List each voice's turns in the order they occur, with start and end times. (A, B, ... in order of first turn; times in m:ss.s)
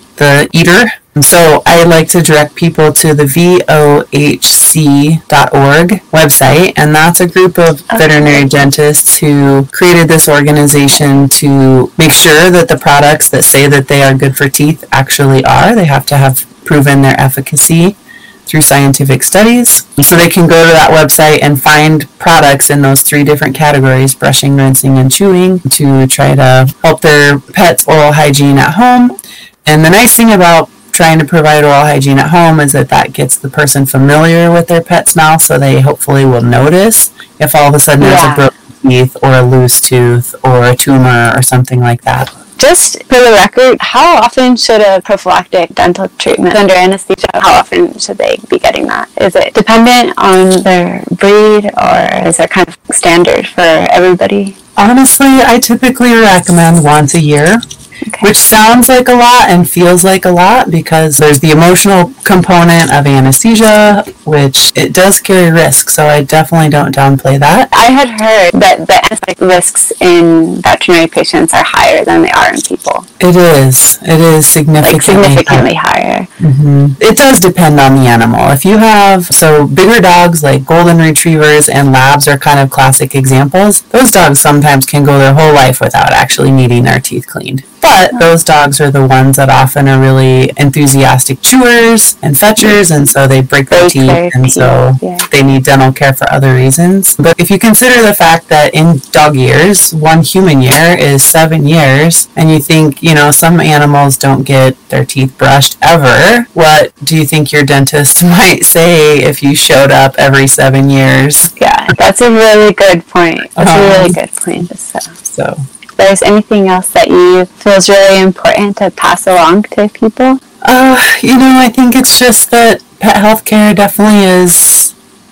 0:00.2-0:42.3 A
0:07.9-0:08.5 B
0:38.0-0:38.5 B
0:42.6-0:54.6 B
0:54.8-0:57.6 A
0:58.2-1:07.7 A
1:07.7-1:13.0 B
1:13.2-1:15.7 A
1:14.8-1:16.3 B
1:16.4-1:51.5 A
1:33.7-1:35.3 B
1:51.6-1:55.1 B
1:53.6-1:54.2 A
1:55.3-1:55.6 A
1:56.0-2:00.4 B
2:00.6-2:04.9 A